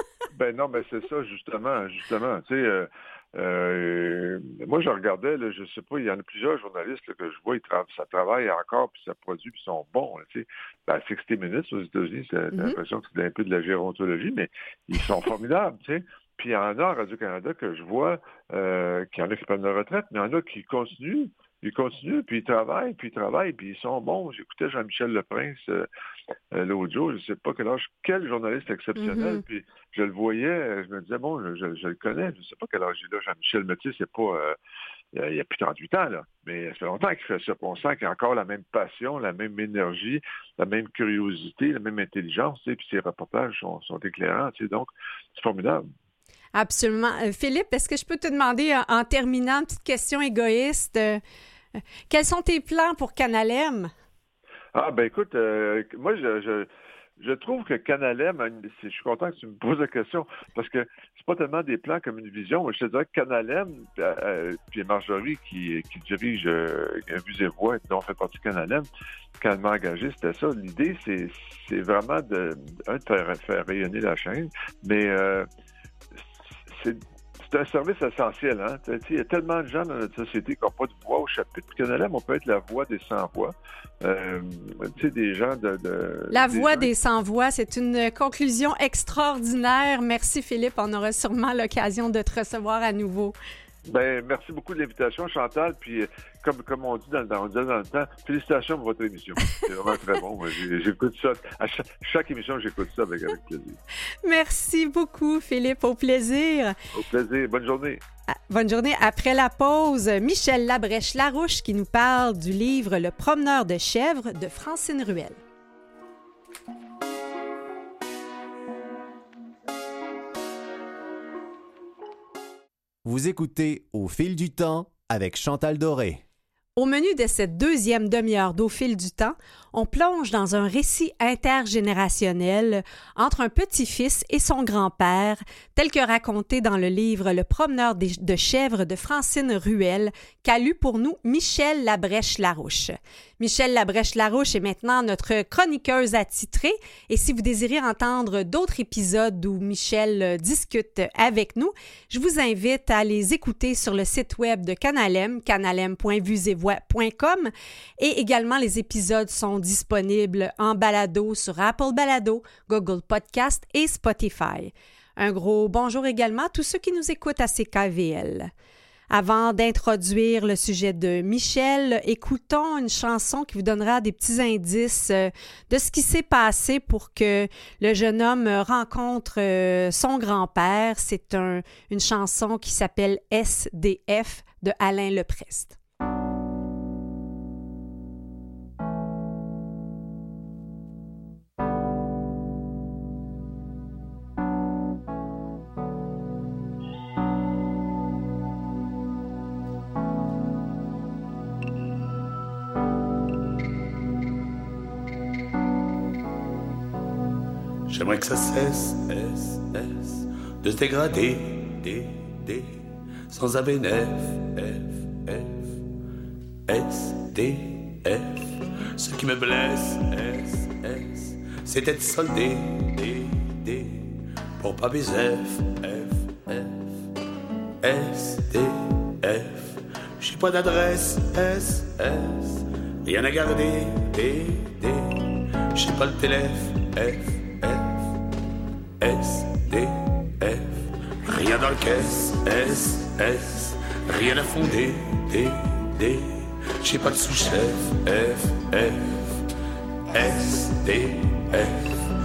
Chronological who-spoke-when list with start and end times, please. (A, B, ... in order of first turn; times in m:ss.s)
0:00.3-0:25.9 A
0:26.5-0:34.6 A
0:29.0-0:29.4 B
0:35.1-0:45.8 A
0:46.5-0:51.2 B
0:52.1-0:53.9 B
0:54.7-1:08.9 A
1:09.4-1:15.5 A
1:16.2-1:26.9 A
1:26.3-1:33.3 B
1:33.9-1:43.8 A
1:44.2-1:46.8 B
1:46.9-1:48.0 A
1:48.5-1:55.4 B
2:03.0-2:06.2 C
2:06.8-2:48.5 B
2:49.1-3:05.8 B
3:27.9-3:35.7 D
3:36.7-3:46.8 D
3:47.8-3:58.0 D
3:59.0-4:09.3 D
4:10.1-4:11.9 D